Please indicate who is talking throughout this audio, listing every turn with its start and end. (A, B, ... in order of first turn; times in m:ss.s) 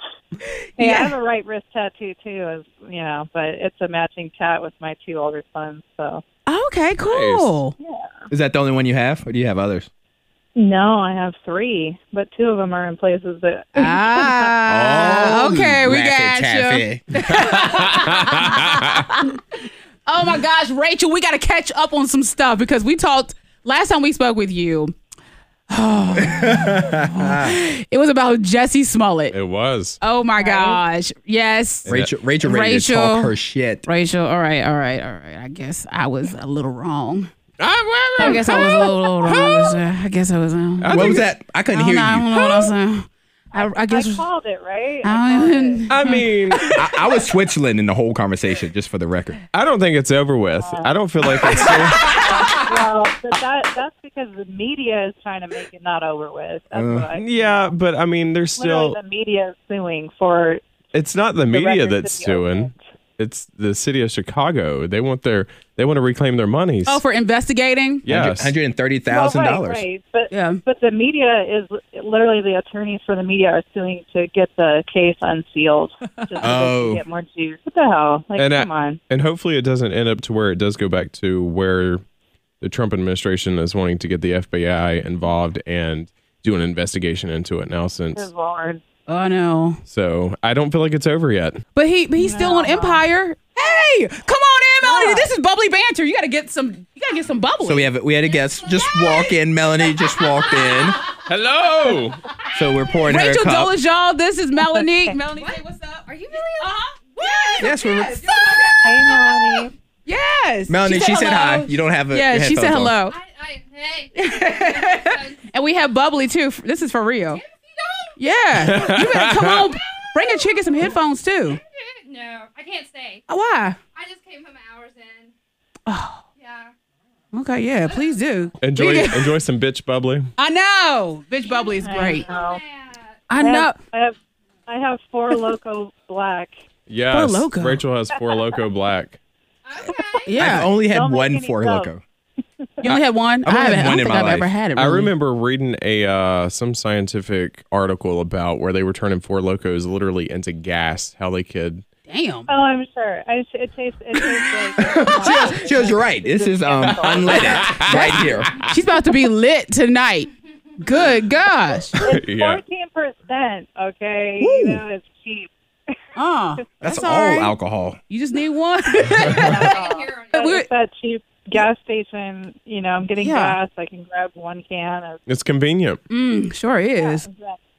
0:00.4-0:01.1 A
0:00.8-0:06.2 B
0:06.5-0:07.7 A
0:07.1-0:07.6 C
0:07.8-0:08.0 B
0:08.3-0:09.9 D
0:10.5-0:14.6 B
0:13.8-0:19.4 A
0:14.7-0:17.3 D
0:17.4-0:19.0 C
0:20.1-0:24.9 A
0:25.7-0:29.4 A
0:26.2-0:27.5 D
0:29.3-0:30.0 C
0:30.0-0:31.9 A
0:30.4-0:30.8 B
0:31.9-0:33.8 D
0:32.4-0:33.3 A
0:33.8-0:37.3 A
0:37.6-0:39.7 C
0:38.2-0:44.2 A
0:38.2-0:38.6 B
0:40.8-0:41.3 C
0:40.9-0:42.5 D
0:43.5-0:45.8 B
0:45.0-0:46.8 A
0:45.9-0:46.8 C
0:46.8-0:49.4 D
0:49.5-0:52.6 C
0:50.6-0:50.9 B
0:51.5-0:57.7 B
0:56.7-0:57.0 D
0:57.1-0:59.0 C
0:58.6-1:00.6 B
1:00.9-1:07.0 C
1:01.5-1:02.8 B
1:06.8-1:08.0 A
1:08.0-1:08.5 C
1:08.1-1:09.8 D
1:09.1-1:19.0 B
1:10.3-1:10.6 A
1:16.4-1:17.0 D
1:18.4-1:22.0 C
1:22.6-1:28.3 C
1:28.1-1:28.8 B
1:29.1-1:29.8 A
1:29.9-1:31.6 C
1:31.8-1:37.9 A
1:32.2-1:33.0 B
1:34.8-1:35.3 B
1:37.6-1:41.0 D
1:38.7-1:39.1 E
1:40.1-1:41.0 E
1:41.2-1:42.2 C
1:42.5-1:43.7 D
1:43.0-1:53.2 A
1:44.6-1:45.1 B
1:45.4-1:49.1 E
1:47.6-1:48.2 D
1:48.8-1:49.7 B
1:50.7-1:53.0 D
1:53.1-1:55.4 E
1:54.2-1:57.4 A
1:57.3-1:58.2 E
1:58.2-2:01.6 A
1:58.5-1:59.6 C
2:00.1-2:03.2 E
2:03.3-2:03.8 A
2:03.9-2:05.3 E
2:05.9-2:06.2 A
2:06.4-2:06.7 E
2:07.3-2:09.3 A
2:07.8-2:08.2 E
2:08.6-2:10.3 C
2:10.4-2:12.3 A
2:11.4-2:13.2 E
2:11.8-2:12.6 B
2:13.3-2:13.8 A
2:13.3-2:14.2 B
2:14.7-2:16.5 B
2:16.9-2:19.2 C
2:17.1-2:17.8 A
2:19.6-2:20.6 E
2:19.8-2:21.9 B
2:20.2-2:20.7 A
2:20.4-2:22.0 D
2:22.8-2:25.1 A
2:22.8-2:24.5 D
2:24.8-2:31.8 C
2:32.1-2:32.5 A
2:32.5-2:37.8 B
2:34.8-2:38.5 D
2:37.5-2:38.7 C
2:37.9-2:42.0 A
2:41.9-2:42.6 C
2:42.0-2:45.5 B
2:44.4-2:44.8 D
2:46.2-2:47.5 A
2:46.8-2:48.0 D
2:48.1-2:49.7 A
2:49.2-2:55.2 B
2:49.6-2:50.6 E
2:50.4-2:50.6 A
2:53.2-2:53.6 A
2:55.3-2:56.0 C
2:56.1-2:57.2 A
2:57.0-2:57.6 B